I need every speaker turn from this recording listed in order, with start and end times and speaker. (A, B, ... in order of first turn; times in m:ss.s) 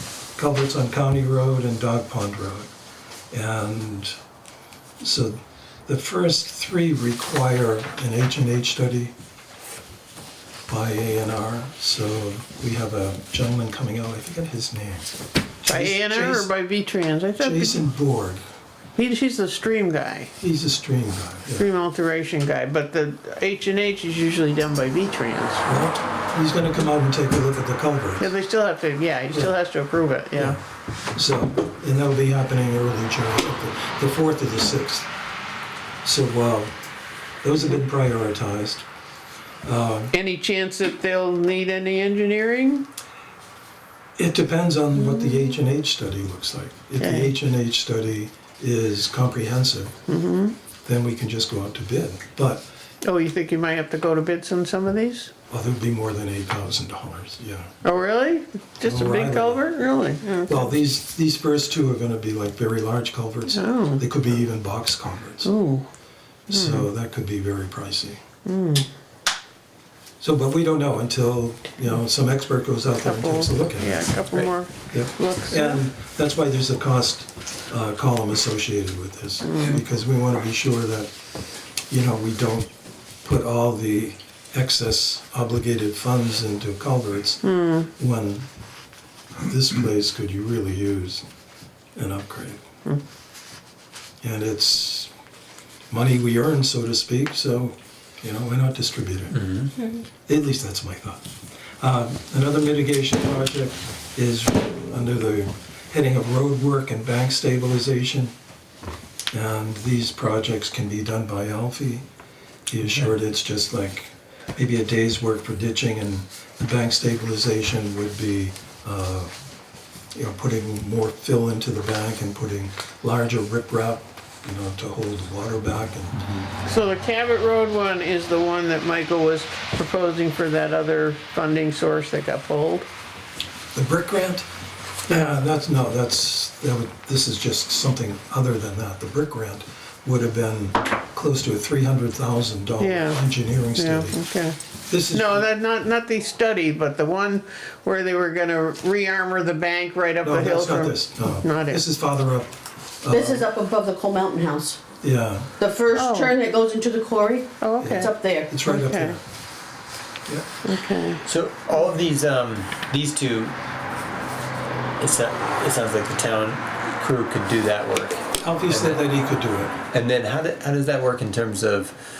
0:00.4-0:02.7 A
0:03.3-0:04.1 A
0:05.0-0:09.1 A
0:10.7-0:15.1 A
0:15.6-0:16.5 A
0:15.6-0:17.8 B
0:17.4-0:18.4 A
0:19.0-0:20.3 B
0:20.4-0:21.7 A
0:21.6-0:25.6 B
0:25.6-0:28.3 A
0:28.2-0:30.6 B
0:31.1-0:35.1 A
0:36.0-0:36.7 A
0:37.4-0:38.8 A
0:39.6-0:40.1 A
0:40.1-0:42.8 B
0:44.2-0:49.9 A
0:45.0-0:45.5 B
0:47.0-0:47.3 B
0:50.1-0:50.5 B
0:50.8-0:52.6 A
0:53.0-0:55.3 B
0:55.5-0:57.7 A
0:57.8-1:00.7 B
0:58.8-0:59.8 A
1:00.5-1:05.5 A
1:03.5-1:04.0 B
1:05.4-1:05.9 B
1:06.5-1:08.2 A
1:06.5-1:06.9 B
1:08.4-1:08.9 B
1:10.2-1:21.1 A
1:13.0-1:15.8 B
1:19.4-1:19.8 B
1:21.9-1:22.7 A
1:23.2-1:28.5 A
1:27.4-1:27.9 B
1:29.4-1:31.2 A
1:32.0-1:32.6 A
1:34.2-1:35.1 A
1:35.9-1:39.4 A
1:39.3-1:39.7 C
1:40.2-1:41.2 A
1:41.8-1:48.3 A
1:49.3-1:52.0 A
1:52.7-1:59.3 A
1:52.8-1:53.1 C
2:00.1-2:06.2 A
2:06.6-2:12.9 B
2:13.7-2:14.4 A
2:15.1-2:24.2 A
2:22.8-2:23.2 B
2:23.7-2:24.6 B
2:24.9-2:25.5 A
2:25.1-2:31.8 B
2:30.2-2:33.4 A
2:33.1-2:34.8 D
2:35.0-2:35.5 A
2:35.6-2:38.5 D
2:35.9-2:36.4 B
2:37.6-2:39.2 B
2:37.8-2:39.2 A
2:40.6-2:41.2 B
2:41.2-2:43.5 C
2:45.0-2:49.0 C
2:48.4-2:49.7 A
2:49.9-2:51.9 C